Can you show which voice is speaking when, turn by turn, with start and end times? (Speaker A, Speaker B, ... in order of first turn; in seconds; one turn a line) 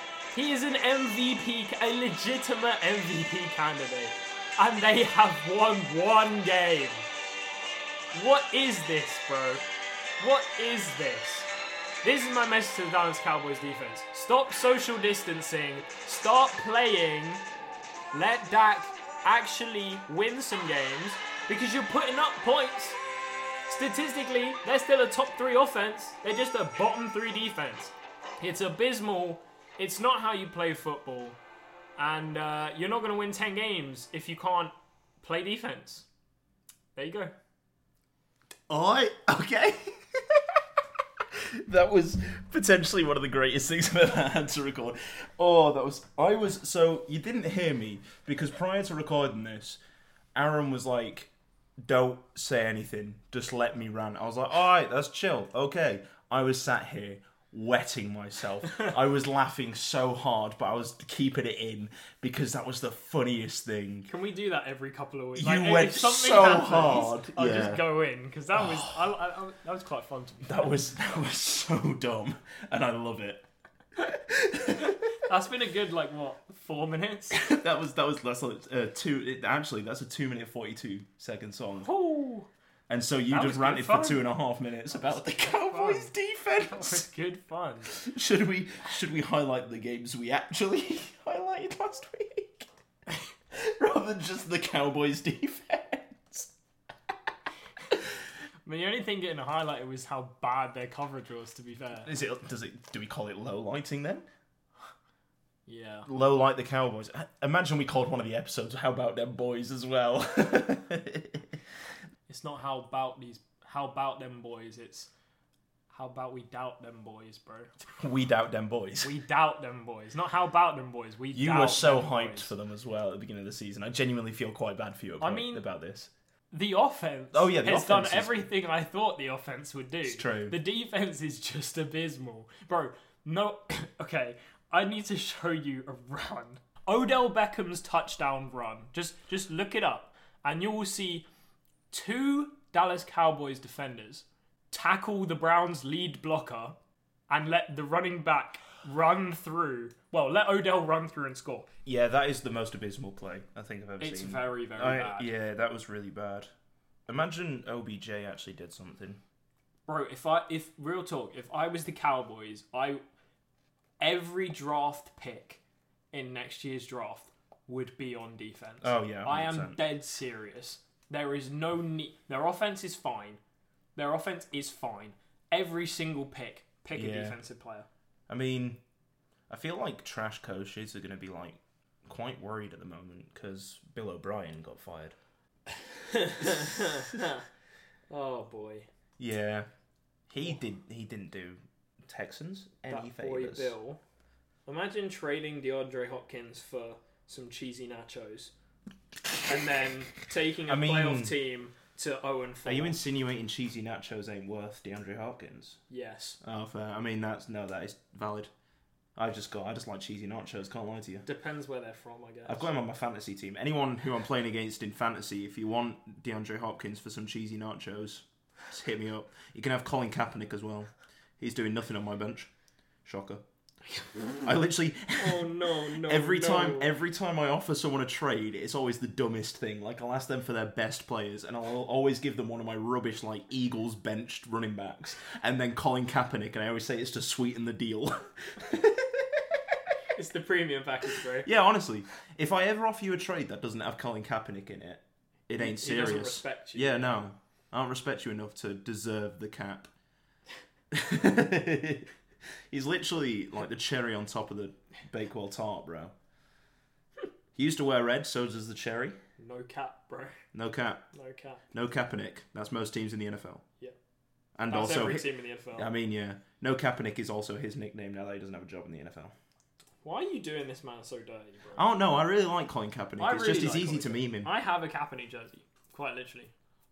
Speaker A: 0.3-7.1
Speaker A: 8.1-9.7
Speaker A: 10.2-11.5
Speaker A: 12.0-17.4
Speaker A: 18.1-23.0
Speaker A: 23.7-31.4
Speaker A: 32.0-36.1
Speaker A: 37.0-37.3
Speaker B: 38.7-40.6
Speaker B: 41.3-49.8
Speaker B: 50.4-64.1
Speaker A: 64.1-70.8
Speaker B: 65.4-67.9
Speaker B: 68.5-69.0
Speaker B: 70.4-75.2
Speaker A: 75.2-77.4
Speaker B: 77.3-81.9
Speaker A: 81.8-82.5
Speaker B: 82.9-87.1
Speaker A: 83.3-84.2
Speaker A: 85.4-87.9
Speaker B: 87.9-92.7
Speaker B: 93.5-96.5
Speaker A: 98.7-102.1
Speaker B: 102.0-104.3
Speaker A: 105.7-106.1
Speaker B: 106.1-111.6
Speaker A: 112.3-115.1
Speaker A: 115.9-117.7
Speaker B: 118.0-119.1
Speaker A: 119.0-122.5
Speaker B: 121.3-126.1
Speaker A: 125.2-125.7
Speaker A: 126.5-141.2
Speaker B: 127.3-128.5
Speaker B: 130.1-130.6
Speaker A: 141.9-146.8
Speaker A: 147.3-151.7
Speaker B: 151.9-156.5
Speaker A: 154.0-155.3
Speaker B: 157.1-159.2
Speaker A: 159.9-163.0
Speaker A: 164.0-165.6
Speaker A: 166.1-173.4
Speaker B: 168.8-169.8
Speaker A: 174.0-177.9
Speaker B: 176.9-177.4
Speaker B: 178.3-178.8
Speaker B: 179.5-185.2
Speaker A: 186.0-187.4
Speaker A: 188.1-188.9
Speaker B: 189.2-189.7
Speaker B: 190.3-193.8
Speaker A: 192.9-194.0
Speaker A: 194.7-198.5
Speaker A: 199.5-203.0
Speaker B: 200.7-201.4
Speaker B: 202.7-205.8
Speaker A: 205.9-206.4
Speaker B: 206.4-208.5
Speaker B: 209.2-211.2
Speaker A: 211.2-212.7
Speaker B: 212.5-222.5
Speaker B: 223.1-223.4
Speaker B: 224.4-239.8
Speaker A: 225.2-226.9
Speaker A: 240.1-241.5
Speaker B: 241.4-249.9
Speaker A: 245.6-247.2
Speaker B: 250.9-252.1
Speaker B: 252.7-256.1
Speaker B: 257.6-259.2
Speaker A: 259.4-260.4
Speaker B: 260.5-261.0
Speaker A: 261.1-261.6
Speaker B: 261.7-263.6
Speaker B: 264.6-269.3
Speaker A: 264.7-265.9
Speaker A: 270.0-271.9
Speaker B: 271.8-274.5
Speaker A: 273.2-276.5